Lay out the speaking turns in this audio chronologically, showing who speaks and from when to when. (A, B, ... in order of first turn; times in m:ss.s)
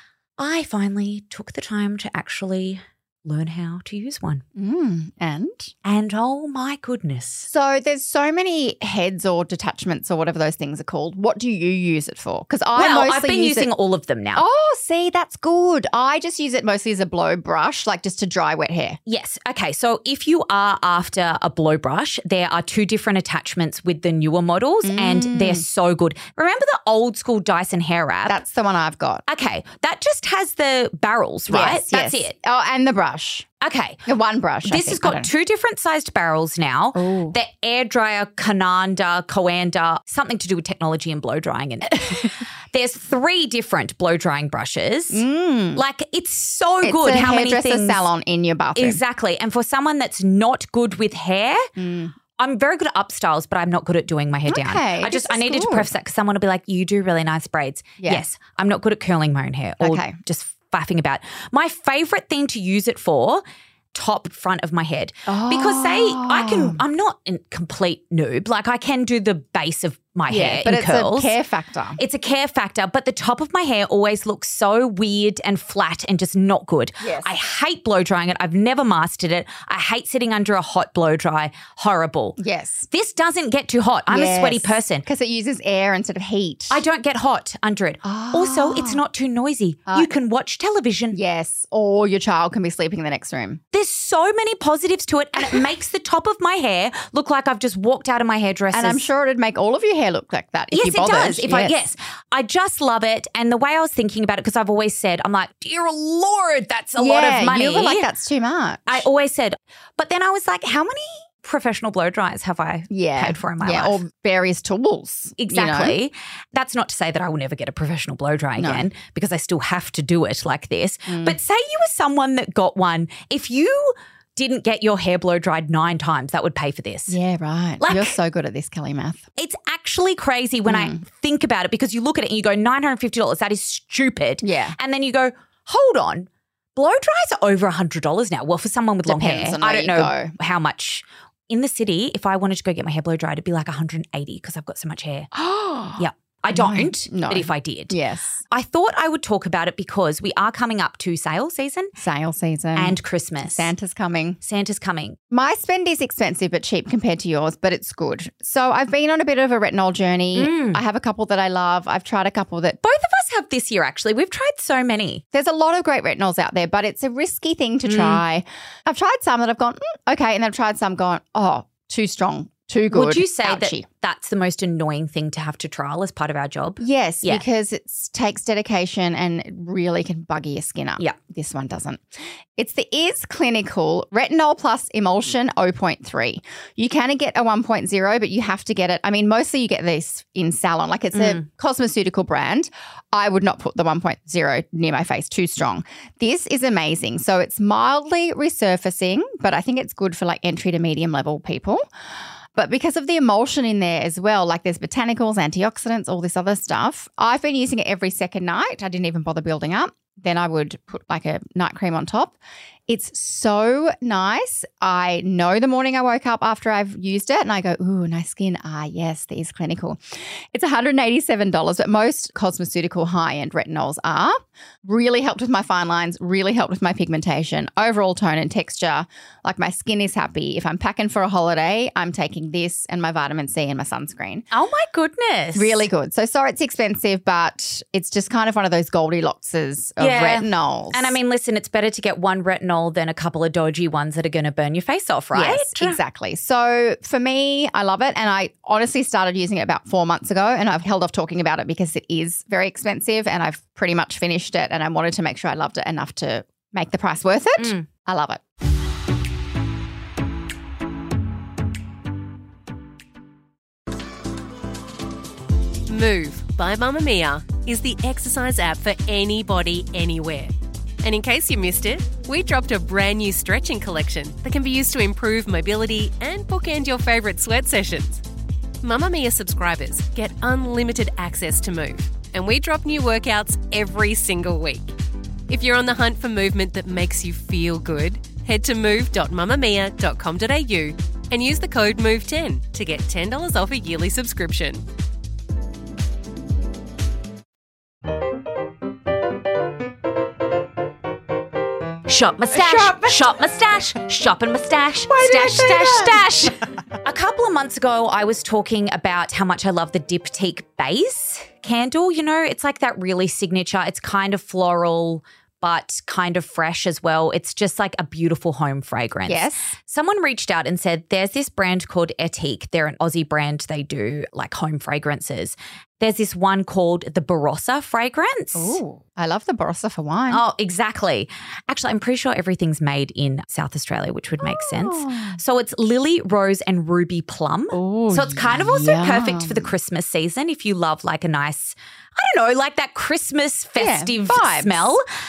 0:00.4-0:04.4 A
0:04.6-0:05.7 B
0:05.8-0:07.5 A
0:07.5-0:13.7 B
0:12.8-0:14.4 A
0:14.4-0:19.0 B
0:19.1-0:28.4 A
0:24.8-0:25.7 B
0:28.3-0:29.2 B
0:29.3-0:32.3 A
0:31.5-0:33.4 B
0:33.6-0:34.0 A
0:34.1-0:35.3 B
0:34.6-0:48.1 A
0:37.0-0:37.4 B
0:45.1-0:45.8 B
0:46.8-0:49.0 B
0:48.8-0:51.6 A
0:51.8-0:52.2 B
0:52.4-1:03.4 A
0:54.5-0:55.9 B
0:58.0-0:58.3 B
0:59.8-1:00.2 B
1:03.9-1:11.4 A
1:05.3-1:06.8 B
1:10.3-1:12.0 B
1:12.0-1:22.4 A
1:17.0-1:17.3 B
1:22.4-1:22.9 B
1:22.9-1:25.0 A
1:24.1-1:26.8 B
1:26.7-1:31.2 A
1:28.0-1:29.0 B
1:31.1-1:33.6 B
1:33.7-1:39.0 A
1:38.7-1:41.9 B
1:40.7-1:48.1 A
1:47.0-1:49.0 B
1:48.9-1:54.0 A
1:52.9-1:56.0 B
1:55.4-2:07.2 A
1:58.6-1:58.9 B
2:01.1-2:01.4 B
2:07.1-2:09.2 B
2:07.8-2:08.2 A
2:09.4-2:25.3 A
2:10.6-2:11.0 B
2:14.4-2:14.8 B
2:19.0-2:20.3 B
2:25.3-2:28.4 B
2:26.0-2:28.0 A
2:28.5-2:31.9 A
2:32.0-2:34.4 B
2:32.8-2:33.7 A
2:34.4-2:35.2 A
2:35.3-2:42.8 B
2:40.4-2:40.8 A
2:42.8-2:45.2 A
2:45.3-2:53.9 B
2:47.8-2:48.2 A
2:52.9-2:57.4 A
2:56.8-3:02.0 B
3:02.6-3:21.8 B
3:22.6-3:32.4 B
3:32.9-3:40.0 B
3:40.5-3:54.5 B
3:54.5-3:55.9 A
3:55.5-4:01.2 B
4:00.0-4:06.0 A
4:05.3-4:18.4 B
4:17.6-4:17.9 A
4:25.9-4:38.2 C
4:38.8-4:44.9 C
4:45.5-4:54.8 C
5:02.1-5:28.8 A
5:02.6-5:03.0 B
5:05.1-5:06.1 B
5:19.3-5:19.7 B
5:28.5-5:30.4 B
5:30.3-5:45.0 A
5:34.4-5:35.4 B
5:37.7-5:39.7 B
5:43.8-5:45.0 B